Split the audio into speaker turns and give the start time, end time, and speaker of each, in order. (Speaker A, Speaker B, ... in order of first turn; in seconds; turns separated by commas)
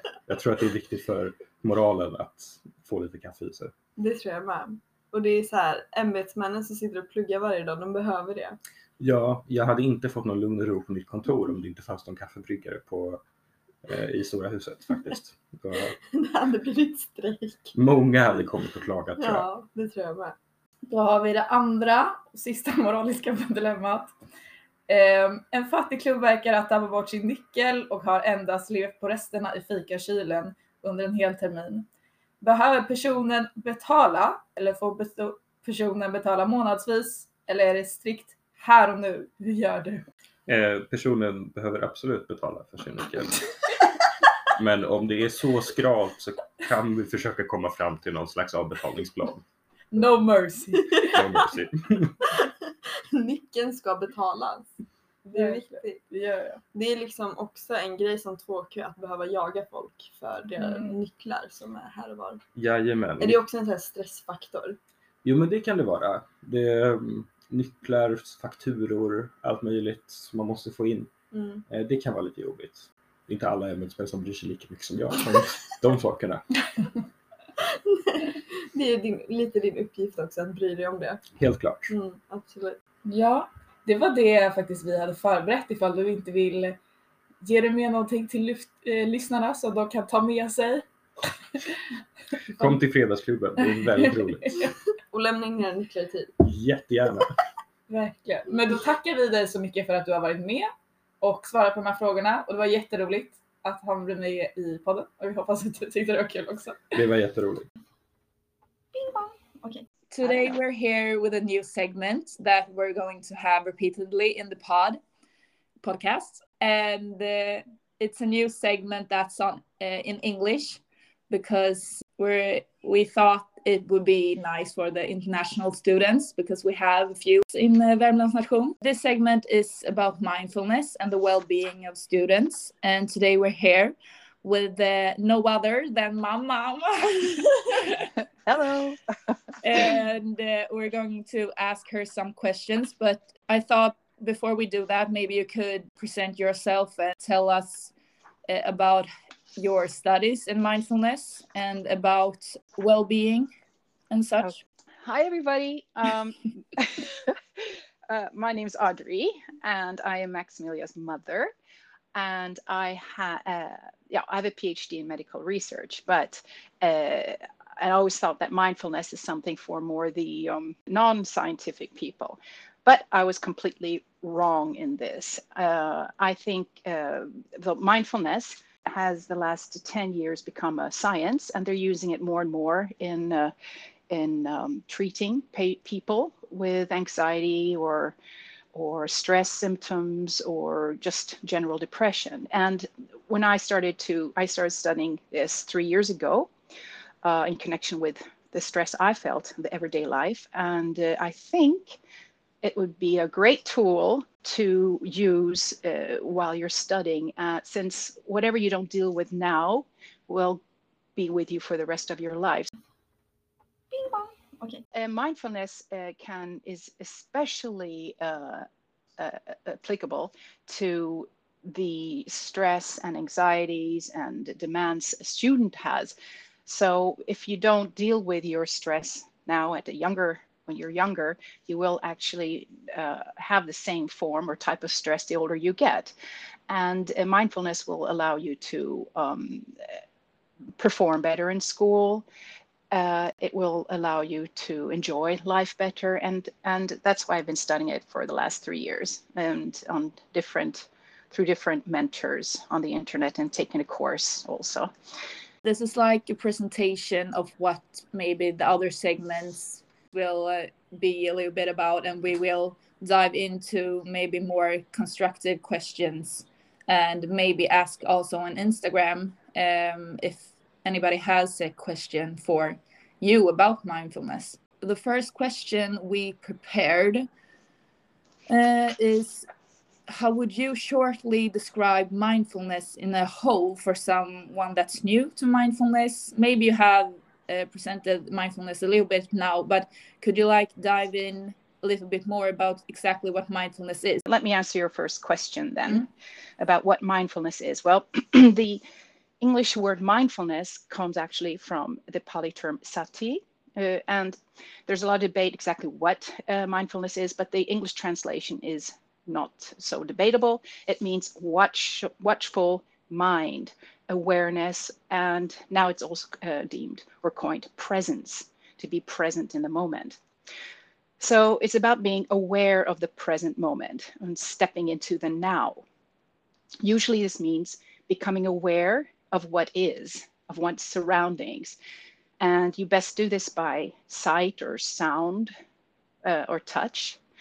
Speaker A: 0.3-3.7, Speaker B: 4.0-8.6, Speaker A: 9.0-13.2, Speaker A: 13.8-16.0, Speaker B: 16.1-17.8, Speaker A: 17.8-19.5, Speaker B: 19.2-20.4, Speaker C: 20.9-24.1, Speaker C: 24.9-31.9, Speaker C: 32.4-40.1, Speaker A: 40.5-43.4, Speaker A: 44.5-49.4, Speaker C: 49.9-51.2, Speaker A: 50.9-52.2, Speaker B: 51.0-51.4, Speaker B: 53.1-54.7, Speaker B: 55.2-56.0, Speaker C: 55.3-56.6, Speaker B: 56.7-62.4, Speaker C: 60.5-61.0, Speaker A: 62.6-63.4, Speaker B: 63.2-64.8, Speaker A: 65.2-71.1, Speaker B: 71.3-71.6, Speaker A: 71.7-76.5, Speaker B: 77.9-81.2, Speaker A: 81.4-81.9, Speaker B: 81.9-82.8, Speaker C: 83.1-86.8, Speaker C: 87.4-90.9, Speaker A: 92.6-94.6, Speaker C: 93.8-94.7, Speaker B: 95.1-96.4, Speaker A: 96.4-97.4, Speaker C: 97.9-107.0, Speaker A: 106.9-107.7, Speaker B: 108.9-110.6, Speaker C: 110.1-115.0, Speaker C: 115.8-138.1, Speaker D: 138.5-139.0, Speaker C: 139.6-147.9, Speaker C: 148.5-153.5, Speaker C: 154.1-154.6, Speaker D: 154.4-161.5, Speaker D: 162.2-183.5, Speaker D: 184.1-188.2, Speaker D: 188.7-196.5, Speaker D: 197.2-202.0, Speaker D: 202.6-210.6, Speaker D: 211.2-212.7, Speaker B: 213.9-214.8, Speaker D: 214.9-218.7, Speaker D: 219.2-226.2, Speaker D: 226.7-236.1, Speaker D: 236.7-239.8, Speaker D: 240.8-242.2, Speaker D: 242.9-254.9, Speaker C: 255.6-277.3, Speaker C: 278.5-279.5, Speaker C: 280.1-294.2, Speaker D: 294.3-296.1, Speaker D: 296.6-298.8, Speaker D: 299.4-320.2, Speaker D: 321.2-325.8, Speaker D: 326.8-331.8, Speaker D: 332.4-335.5, Speaker D: 336.2-337.2